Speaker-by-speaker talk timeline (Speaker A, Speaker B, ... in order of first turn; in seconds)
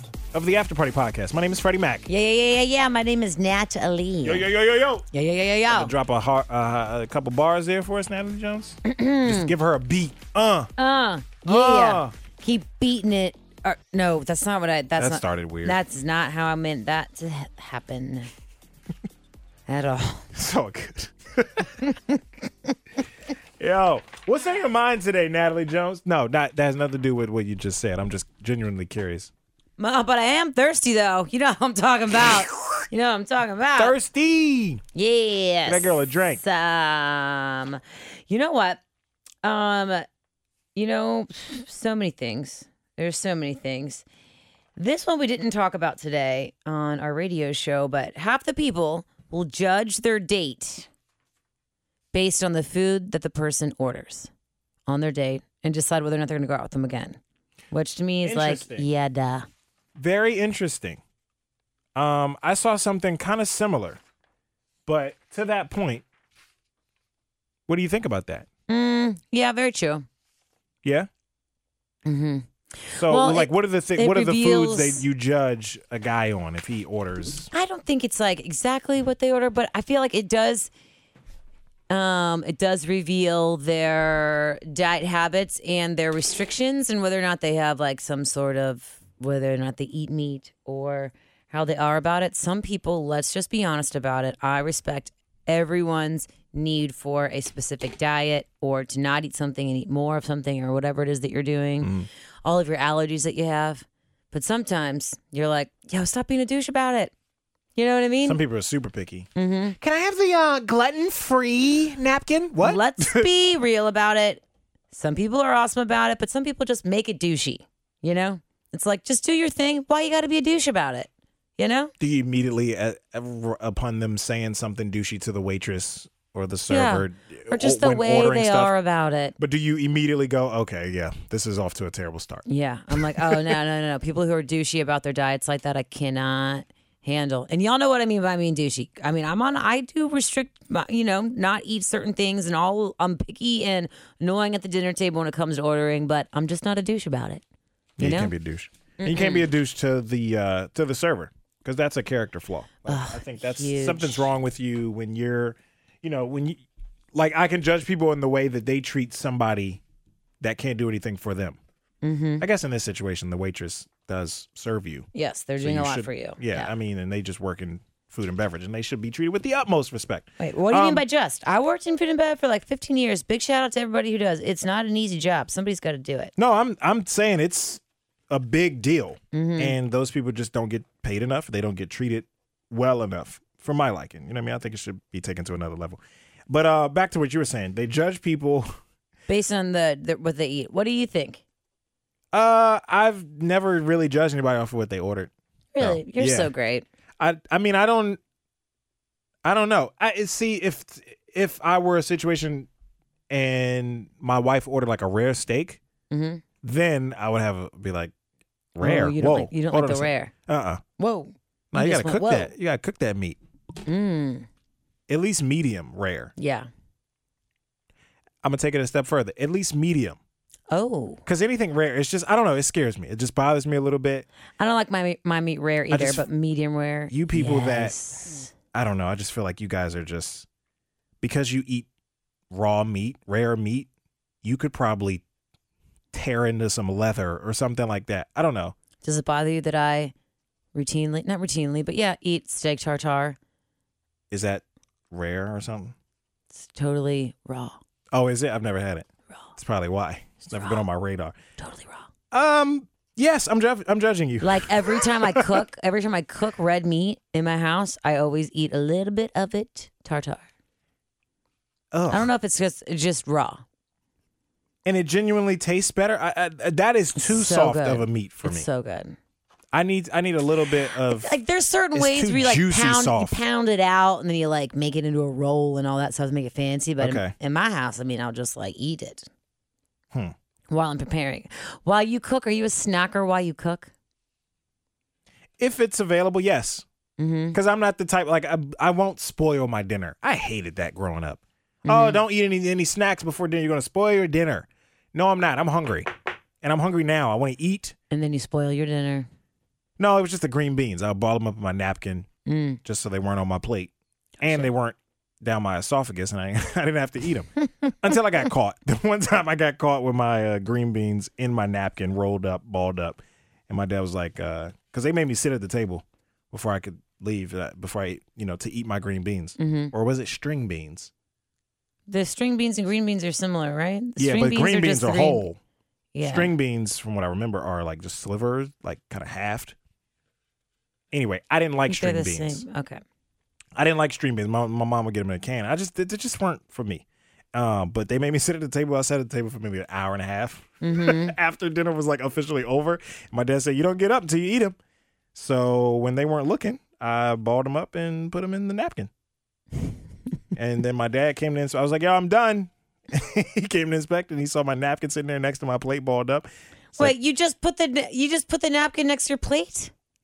Speaker A: 0.3-2.1, 4.2-5.0, 5.7-10.7, 11.4-12.1, 15.0-15.8, 20.3-21.8, 23.6-29.3, 33.8-34.8, 35.7-36.4, 58.2-58.9, 60.0-61.0, 62.0-64.0, 64.9-66.0, 67.7-68.5, 70.8-71.1, 72.9-77.5, 101.8-102.1, 108.2-109.3, 109.8-113.3, 122.0-128.7, 129.4-133.6, 148.0-156.6, 157.1-159.8, 160.4-161.6, 162.4-165.1, 165.6-171.1, 176.4-188.7, 192.3-196.5, 197.2-198.2, 199.4-202.7, 203.3-205.8, 206.6-208.1, 208.8-210.8, 211.7-213.4, 215.1-216.3, 218.4-220.2, 221.3-224.3, 225.9-226.3, 227.1-228.0, 228.7-230.5, 231.2-231.9, 232.5-233.9, 234.4-235.2, 236.1-238.8, 244.3-245.9, 248.1-251.4, 252.3-255.6, 261.9-262.3, 264.9-268.7, 269.7-271.3, 271.9-273.4, 277.0-277.3, 285.6-286.9, 287.5-296.1, 296.6-297.9, 300.0-302.3, 302.8-321.1, 324.2-325.6, 326.2-329.8, 331.1-332.6, 333.8-344.8, 345.4-349.1, 350.6-357.1
Speaker B: 2.1-4.5, 5.1-5.9, 8.8-9.5, 10.8-18.3, 19.7-20.3, 21.7-22.2, 29.8-34.0, 34.9-38.8, 39.4-40.0, 40.8-44.0, 44.8-50.9, 52.1-54.3, 54.9-57.2, 57.7-59.5, 68.7-70.0, 72.1-75.1, 77.5-80.7, 81.9-107.1, 107.8-108.4, 109.3-109.8, 112.6-121.9, 126.7-129.3, 132.5-147.4, 148.0-148.3, 149.0-149.5, 152.9-154.3, 162.0-162.5, 165.1-166.7, 170.4-176.3, 179.3-179.8, 189.3-191.4, 195.8-196.9, 206.1-206.4, 208.8-210.3, 211.0-212.5, 213.8-214.5, 216.4-216.7, 220.7-221.2, 224.6-228.5, 239.0-240.1, 240.7-243.4, 246.5-247.8, 250.6-250.8, 251.6-252.1, 254.4-260.5, 262.1-263.6, 267.2-269.2, 270.8-279.3, 280.7-283.9, 287.2-287.6, 291.9-292.2, 298.1-299.3, 302.5-302.8, 304.4-304.7, 319.6-319.9, 322.1-325.5, 326.1-326.6, 331.9-333.0, 340.8-341.4, 356.9-359.9